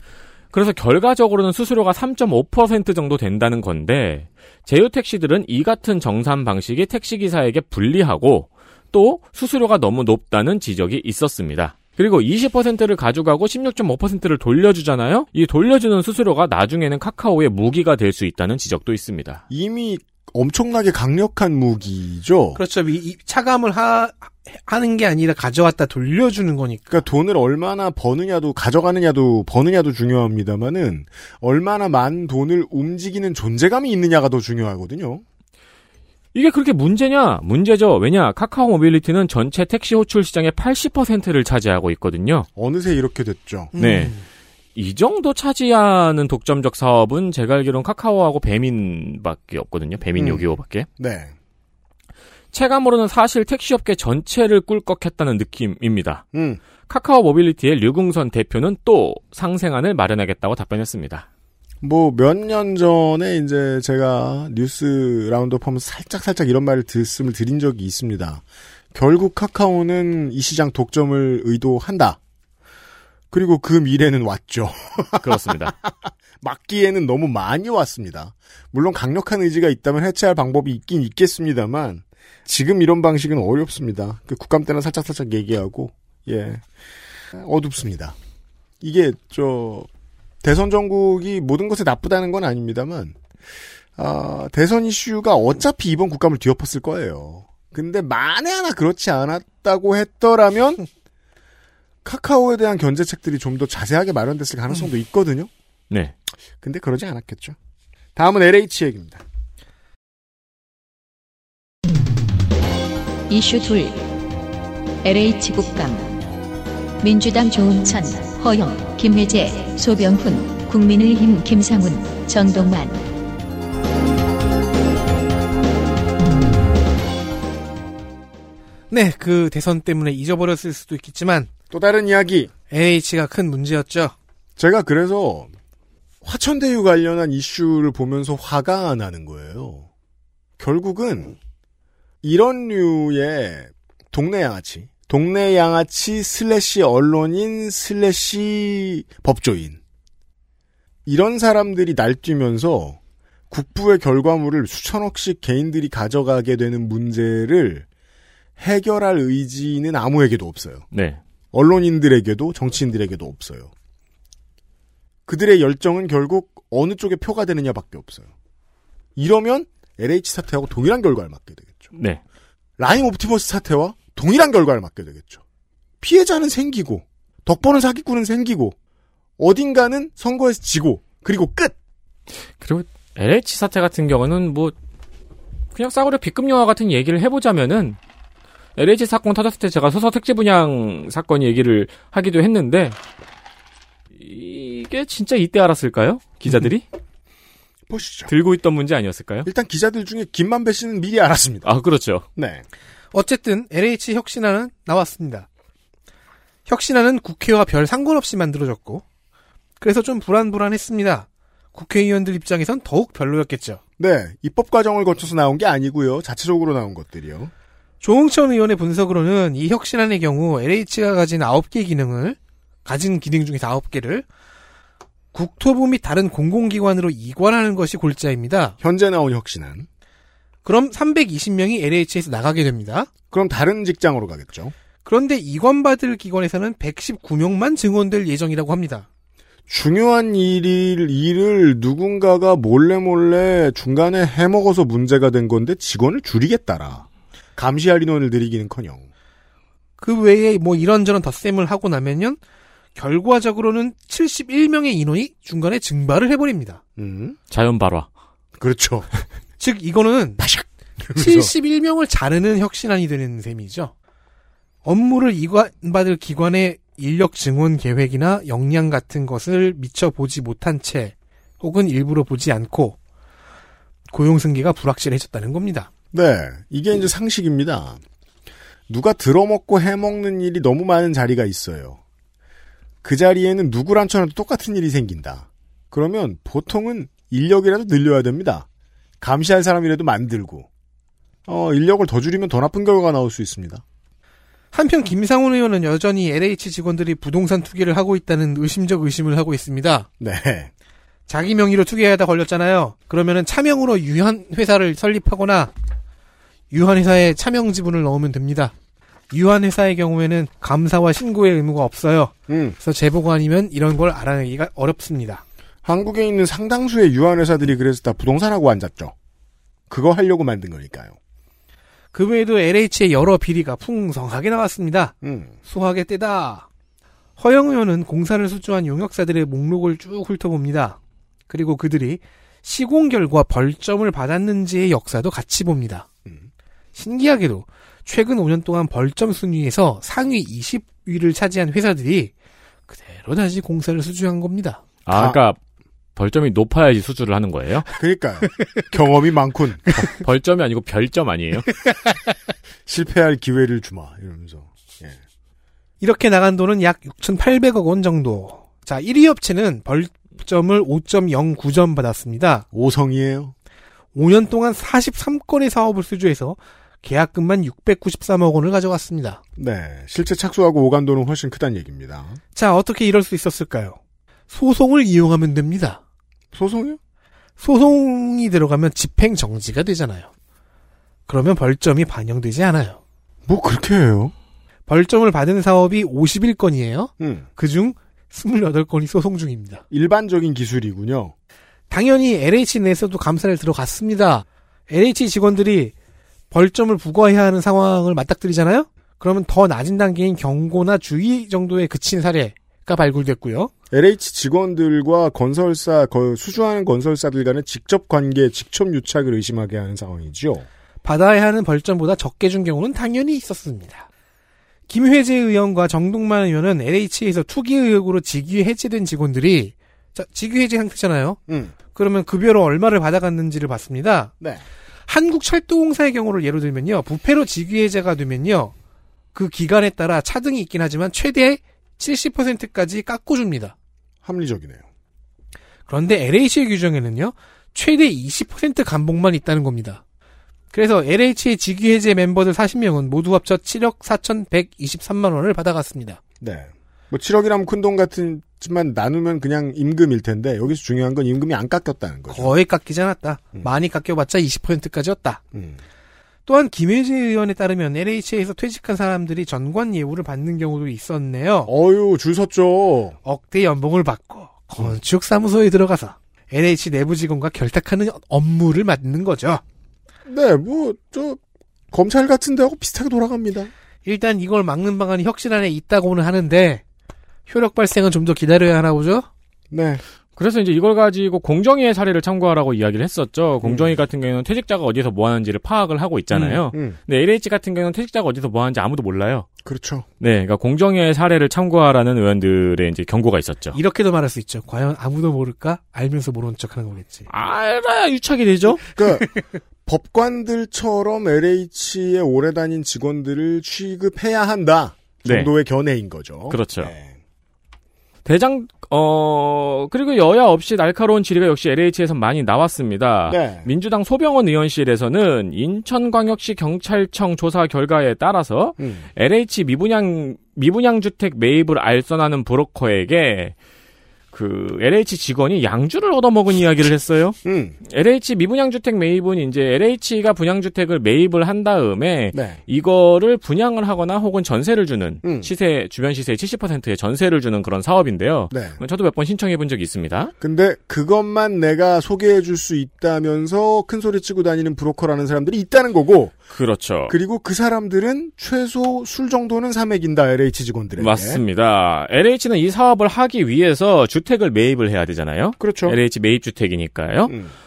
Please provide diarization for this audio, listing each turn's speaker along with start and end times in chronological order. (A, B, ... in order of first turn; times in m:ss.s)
0:00.5-0:19.4 A
0:19.5-0:22.6 B
0:22.5-0:27.0 C
0:26.9-0:35.2 B
0:36.3-0:42.5 A
0:42.6-0:43.7 B
0:43.7-0:44.2 C
0:43.8-0:44.1 A
0:44.7-0:50.9 A
0:50.1-0:50.5 B
0:51.0-0:51.3 B
0:52.5-0:56.2 A
0:56.3-0:56.6 B
0:56.9-1:01.2 A
1:01.8-1:08.4 B
1:08.9-1:12.2 B
1:13.3-1:26.6 B
1:15.2-1:15.7 A
1:27.3-1:28.2 B
1:28.8-1:29.9 B
1:30.4-1:33.2 B
1:34.0-1:40.8 B
1:42.0-1:45.5 B
1:46.6-1:47.6 B
1:48.2-1:49.2 B
1:53.3-1:54.1 D
1:55.0-1:56.2 D
1:57.0-2:03.1 D
2:08.9-2:11.5 C
2:11.7-2:12.5 B
2:12.7-2:14.1 C
2:14.6-2:15.5 B
2:16.2-2:19.9 B
2:20.6-2:21.4 B
2:22.2-2:29.8 B
2:31.0-2:33.0 B
2:33.5-2:37.8 B
2:38.6-2:40.8 B
2:40.9-2:41.2 A
2:41.5-2:43.7 B
2:45.3-2:48.3 B
2:49.2-2:51.9 B
2:51.9-2:52.2 A
2:52.8-2:55.4 B
2:56.0-2:58.7 B
2:59.4-3:01.7 B
3:02.6-3:04.7 A
3:05.7-3:08.0 A
3:08.8-3:13.0 A
3:14.2-3:16.8 A
3:17.9-3:18.3 B
3:18.3-3:19.5 A
3:19.4-3:21.7 B
3:21.6-3:22.2 A
3:22.4-3:22.6 B
3:23.1-3:25.5 C
3:26.7-3:29.0 C
3:29.8-3:33.8 C
3:34.0-3:37.5 B
3:38.0-3:44.2 C
3:45.3-3:48.8 C
3:48.8-3:49.9 B
3:50.6-3:53.1 C
3:53.3-3:54.7 B
3:55.0-3:59.0 C
3:59.7-4:09.1 B
4:10.0-4:12.4 C
4:13.0-4:16.8 C
4:17.0-4:17.4 B
4:17.5-4:18.1 A
4:18.6-4:19.1 B
4:19.6-4:20.5 C
4:20.4-4:21.5 B
4:21.1-4:23.9 C
4:24.8-4:33.0 C
4:34.1-4:35.9 C
4:36.1-4:38.0 B
4:38.9-4:42.0 B
4:43.0-4:48.6 B
4:49.2-4:50.7 B
4:51.5-4:53.8 B
4:54.7-5:00.1 C
5:00.2-5:00.7 B
5:01.3-5:05.7 C
5:06.7-5:08.7 C
5:09.3-5:15.4 C
5:12.5-5:12.8 B
5:15.8-5:19.1 B
5:19.9-5:21.2 B
5:22.1-5:26.7 C
5:25.2-5:25.5 B
5:27.4-5:31.0 C
5:31.5-5:36.1 C
5:36.9-5:42.3 C
5:42.9-5:44.8 C
5:45.0-5:45.6 A
5:45.1-5:45.4 B
5:46.2-5:47.9 A
5:47.9-5:50.1 B
5:50.1-5:51.7 A
5:52.8-5:55.2 B
5:56.0-6:02.6 C
6:02.7-6:03.5 B
6:04.1-6:09.4 C
6:09.6-6:12.4 B
6:12.5-6:14.0 C
6:14.5-6:16.0 C
6:16.5-6:17.0 B
6:17.6-6:20.3 C
6:21.3-6:23.0 C
6:23.4-6:24.3 B
6:24.9-6:29.8 C
6:27.2-6:27.5 B
6:29.9-6:31.3 B
6:31.9-6:35.9 C
6:36.5-6:43.7 C
6:43.9-6:50.6 B
6:51.0-6:54.0 C
6:54.9-7:01.4 C
7:01.5-7:01.7 B
7:01.9-7:04.3 C
7:05.1-7:08.7 C
7:09.3-7:13.7 C
7:14.2-7:14.8 B
7:15.9-7:20.0 C
7:20.7-7:26.2 C
7:26.4-7:32.5 B
7:32.3-7:35.4 C
7:35.5-7:35.8 B
7:36.4-7:41.7 C
7:41.7-7:43.2 B
7:43.2-7:49.6 C
7:50.2-7:51.4 B
7:51.9-7:53.7 B
7:54.0-7:56.8 C
7:57.5-7:59.3 C
7:59.7-8:00.0 B
8:00.4-8:09.4 A
8:03.6-8:03.9 B
8:06.3-8:07.0 B
8:09.6-8:10.0 B
8:10.2-8:13.8 A
8:13.7-8:17.3 C
8:17.3-8:18.8 A
8:18.9-8:19.3 B
8:19.8-8:27.2 B
8:25.2-8:25.5 A
8:26.5-8:26.9 A
8:28.2-8:43.5 A
8:33.3-8:33.7 B
8:38.8-8:39.1 B
8:44.3-9:00.3 A
8:47.4-8:47.8 B
8:52.3-8:52.6 B
8:55.2-8:55.5 B
8:58.5-8:58.8 B
9:00.4-9:06.4 B
9:06.5-9:07.1 A
9:07.1-9:11.4 B
9:11.0-9:17.3 A
9:15.6-9:16.0 B
9:17.3-9:17.5 B